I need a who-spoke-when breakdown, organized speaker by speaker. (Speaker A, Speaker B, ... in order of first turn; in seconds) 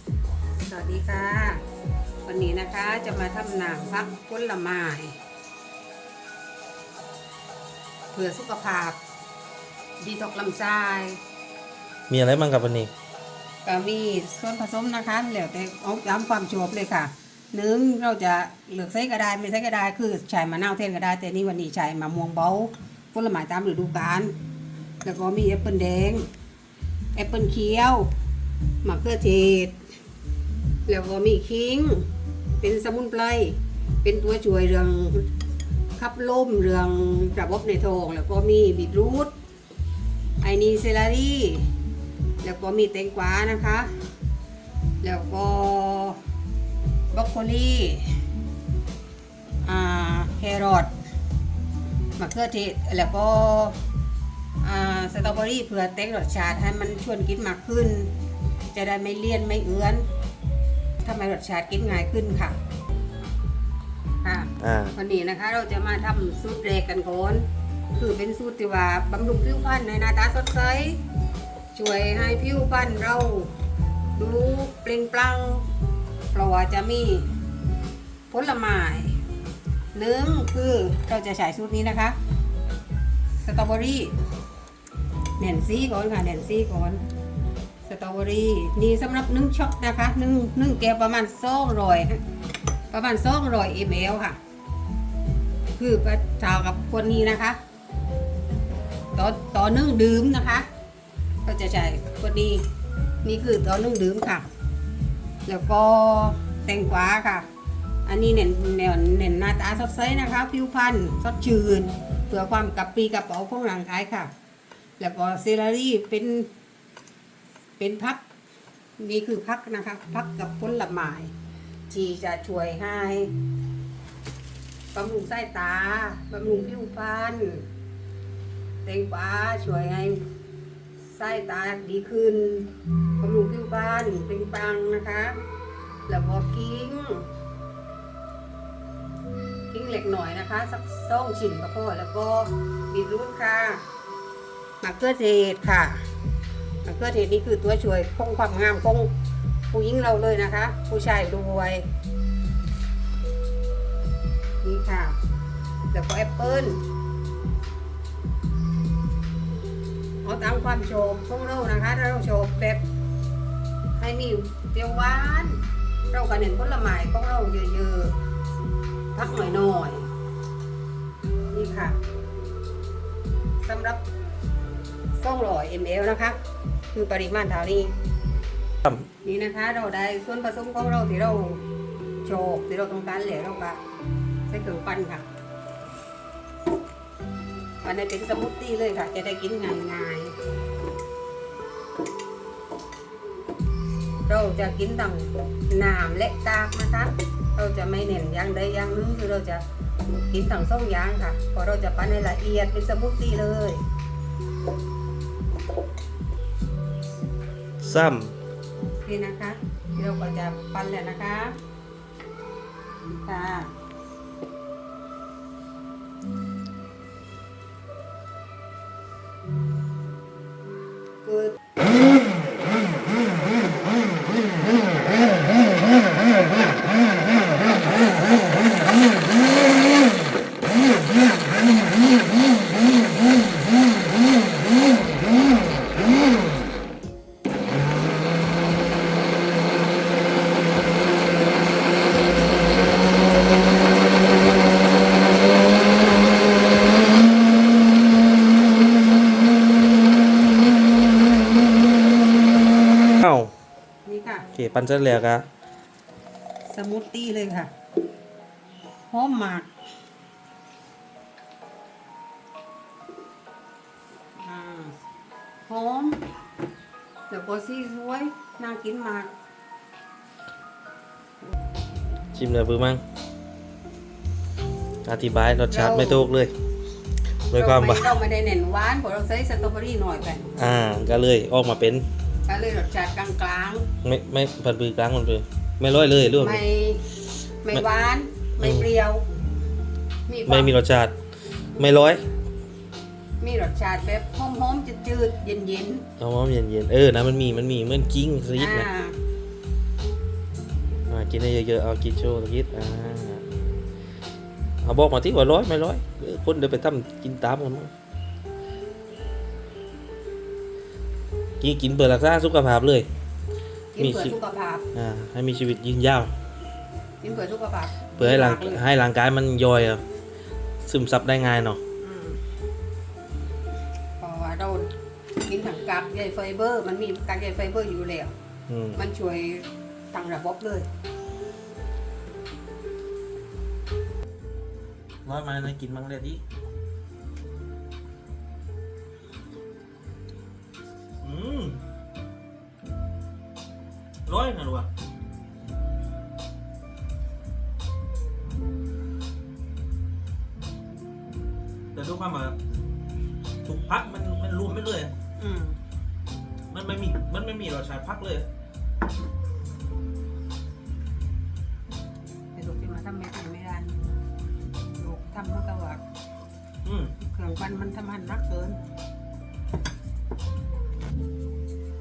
Speaker A: 0.6-1.6, 2.2-5.2, 8.1-9.0, 10.0-11.2, 13.7-24.3, 25.0-26.3, 27.2-28.1, 28.8-29.8, 30.9-32.1, 32.6-35.3, 36.0-39.3, 40.4-41.7, 42.4-43.9, 45.0-46.2, 47.1-48.2, 49.6-50.9, 52.2-53.8, 54.6-58.1, 58.7-60.1, 61.0-62.6, 64.2-71.0, 71.7-73.5, 74.2-75.7, 76.3-77.3, 78.3-79.2, 79.9-82.2, 83.4-84.2, 85.4-87.0, 87.8-92.2, 92.9-94.4, 95.8-97.6, 99.1-100.7, 101.5-102.7, 103.2-104.5, 105.5-107.5, 108.1-114.3, 115.0-116.5, 117.8-118.2, 119.0-121.3, 121.9-123.3, 124.9-127.7, 128.8-130.2, 131.1-135.4, 136.1-137.3, 139.7-143.8, 144.8-146.1, 146.8-149.1, 149.7-151.9, 154.6-155.2, 155.9-156.8, 160.2-162.8, 164.0-165.6, 166.1-168.2, 169.2-170.1, 171.5-172.0, 173.6-174.0, 175.2-176.4, 176.9-177.9, 179.2-181.6, 182.2-183.8, 184.5-185.3, 187.8-190.4, 194.3-199.6, 200.2-203.8, 209.1-211.6, 213.1-213.7, 221.2-221.6, 254.1-254.5, 256.7-257.7, 259.1-259.7, 264.4-265.0, 265.7-266.2, 267.3-269.3, 275.7-276.3, 277.5-280.6, 282.5-283.9, 286.4-289.2, 290.3-290.7, 293.4-296.1, 298.6-299.2, 313.9-314.9, 317.2-318.8, 322.0-322.4, 324.2-324.9, 325.4-328.3, 329.0-330.9, 355.4-355.8, 362.6-364.0, 365.0-366.0, 367.2-368.8
Speaker B: 12.1-12.9, 64.6-65.0, 207.8-208.3, 253.1-253.5, 254.5-255.5, 272.3-273.0, 275.1-276.5, 277.5-278.1, 280.6-282.1, 284.0-286.6, 288.6-288.9, 290.5-291.1, 291.8-292.2, 296.2-298.9, 301.1-303.5, 304.8-307.9, 311.6-313.1, 314.0-314.3, 314.9-316.3, 318.2-320.0, 320.8-321.8, 328.7-329.0, 335.2-336.4, 341.2-341.8, 344.3-344.9, 351.9-352.6, 353.6-355.1, 356.7-358.5, 366.9-367.1